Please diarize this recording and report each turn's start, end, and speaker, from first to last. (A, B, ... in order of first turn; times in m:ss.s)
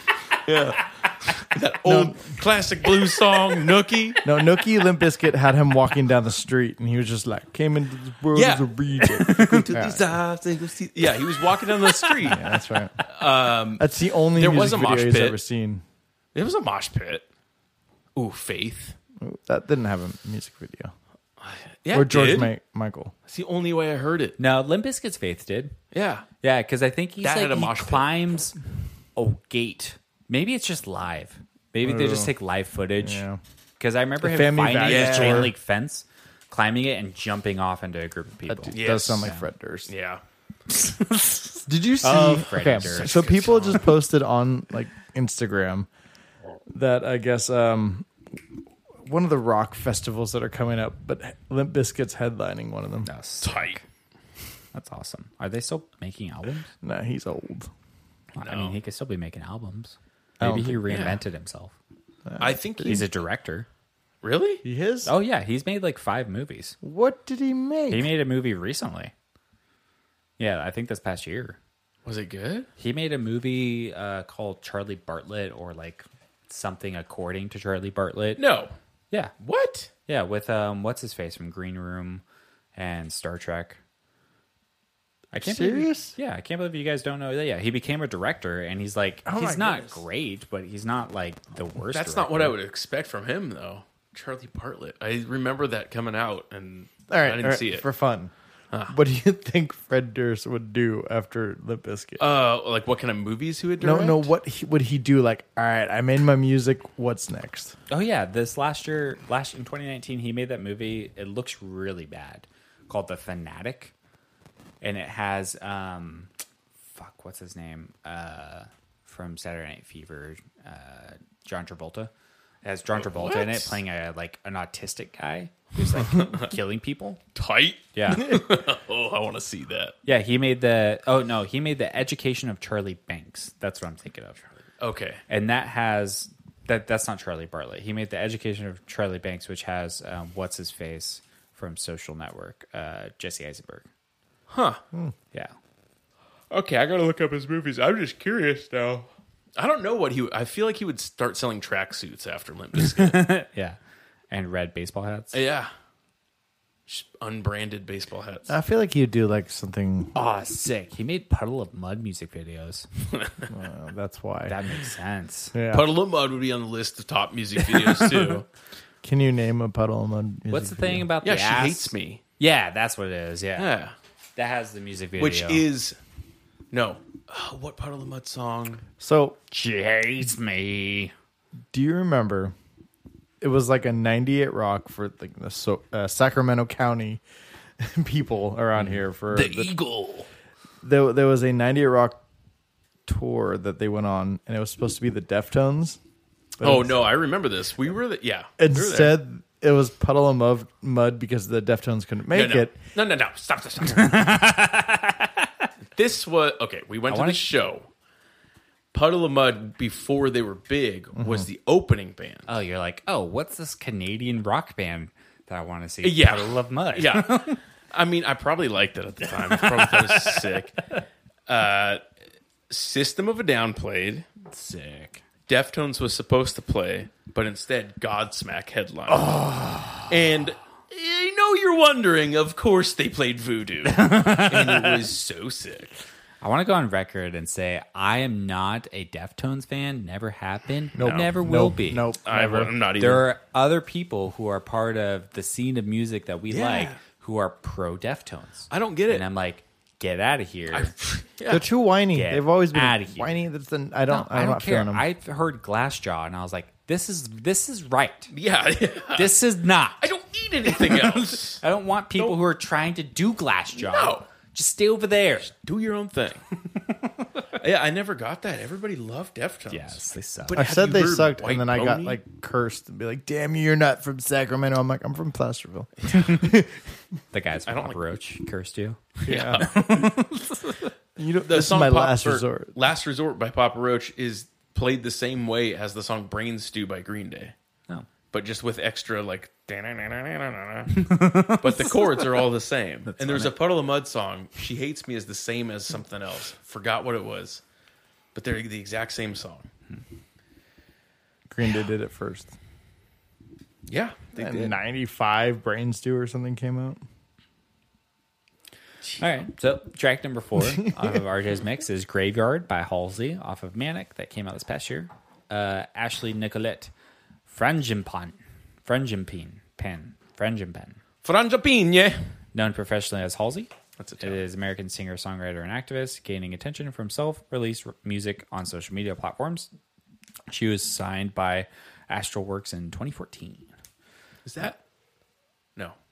0:00.4-0:04.2 A
0:01.8-0:02.4 B
0:04.2-0:10.1 B
0:08.3-0:15.4 A
0:12.0-0:12.2 C
0:12.2-0:13.1 B
0:13.8-0:15.8 B
0:16.4-0:17.3 A
0:18.2-0:19.0 A
0:19.2-0:20.9 B
0:21.4-0:22.5 A
0:21.9-0:23.1 B
0:23.3-0:24.4 A
0:24.4-0:25.8 C
0:25.9-0:26.3 A
0:26.4-0:28.6 C
0:27.2-0:28.1 A
0:29.2-0:33.2 C
0:31.8-0:32.3 B
0:33.0-0:33.4 B
0:33.8-0:39.4 C
0:34.2-0:35.5 B
0:34.8-0:35.5 A
0:38.5-0:39.9 B
0:38.7-0:39.3 A
0:39.9-0:40.2 A
0:40.7-0:43.4 C
0:41.7-0:45.9 B
0:42.6-0:43.9 A
0:46.7-0:48.1 B
0:49.0-0:53.1 B
0:53.0-0:53.8 C
0:53.4-0:53.8 A
0:54.7-0:56.7 C
0:56.8-0:57.7 B
0:58.4-1:01.7 C
0:58.4-0:58.8 A
1:00.4-1:00.9 B
1:00.9-1:01.2 A
1:02.2-1:03.0 B
1:02.4-1:03.1 A
1:02.8-1:03.7 C
1:04.2-1:04.6 A
1:04.6-1:05.1 B
1:05.0-1:06.8 C
1:06.8-1:08.1 B
1:07.9-1:09.1 C
1:10.4-1:11.6 C
1:12.0-1:12.7 A
1:12.8-1:18.4 C
1:18.4-1:18.7 A
1:19.4-1:19.9 A
1:20.1-1:22.2 C
1:22.8-1:23.8 C
1:25.3-1:32.6 C
1:25.4-1:26.2 B
1:29.3-1:30.0 B
1:31.9-1:37.9 A
1:37.1-1:38.3 B
1:38.9-1:42.2 B
1:42.2-1:44.3 A
1:43.8-1:47.8 B
1:47.9-1:53.9 C
1:54.8-1:56.3 C
1:56.9-2:02.1 C
2:02.6-2:07.2 C
2:03.0-2:03.8 A
2:06.0-2:06.5 A
2:07.4-2:10.0 A
2:07.9-2:08.4 C
2:10.0-2:14.4 C
2:14.8-2:15.2 A
2:15.3-2:23.9 C
2:24.5-2:24.8 A
2:26.5-2:33.3 A
2:32.8-2:33.8 C
2:34.3-2:35.4 C
2:35.3-2:35.7 A
2:36.9-2:38.5 A
2:38.5-2:40.1 B
2:40.2-2:42.9 C
2:43.1-2:43.5 A
2:43.5-2:44.6 B
2:44.5-2:45.6 C
2:45.5-2:45.9 B
2:45.7-2:48.5 A
2:49.0-2:51.1 B
2:50.5-2:53.7 C
2:51.2-2:52.2 A
2:53.6-2:54.0 A
2:54.4-2:55.6 C
2:55.2-2:56.0 A
2:56.7-2:58.8 A
2:59.0-2:59.4 B
2:59.5-3:01.1 C
3:01.7-3:02.5 B
3:03.4-3:07.2 B
3:07.8-3:09.7 B
3:09.3-3:10.2 A
3:10.8-3:12.2 B
3:13.1-3:16.0 B
3:16.6-3:17.0 B
3:16.6-3:19.2 A
3:18.6-3:22.7 B
3:22.3-3:24.3 A
3:23.8-3:25.7 C
3:25.9-3:27.9 A
3:27.1-3:27.4 C
3:28.9-3:32.5 A
3:31.2-3:31.5 B
3:32.5-3:37.6 C
3:36.0-3:40.8 A
3:39.3-3:40.5 C
3:41.5-3:42.0 A
3:42.7-3:44.3 A
3:44.4-3:45.2 C
3:45.5-3:49.4 A
3:49.1-3:50.2 C
3:50.1-3:55.9 A
3:53.9-3:55.0 C
3:56.4-4:02.1 C
4:01.0-4:02.7 B
4:02.2-4:03.3 A
4:03.0-4:10.9 C
4:06.5-4:07.0 A
4:08.7-4:09.3 A
4:10.7-4:11.7 A
4:11.5-4:15.0 B
4:12.1-4:13.4 C
4:14.1-4:18.3 C
4:18.3-4:19.4 A
4:19.2-4:20.1 C
4:20.0-4:21.6 A
4:20.6-4:25.5 C
4:23.8-4:24.3 A
4:25.5-4:26.4 A
4:26.6-4:27.3 C
4:27.5-4:32.2 A
4:29.7-4:30.6 C
4:30.6-4:36.8 B
4:36.1-4:36.5 C
4:37.3-4:40.8 C
4:37.7-4:38.0 A
4:39.2-4:40.1 A
4:39.3-4:40.1 B
4:41.2-4:42.7 B
4:41.5-4:47.5 A
4:48.3-4:57.6 A
4:50.9-4:52.2 C
4:53.2-4:53.5 C
4:58.3-4:59.7 A
5:01.5-5:02.6 B
5:03.9-5:04.8 A
5:04.4-5:07.0 B
5:09.2-5:16.9 C
5:17.5-5:21.0 C
5:21.2-5:22.3 A
5:22.6-5:29.7 C
5:24.0-5:24.4 A
5:30.5-5:33.7 C
5:34.4-5:34.8 A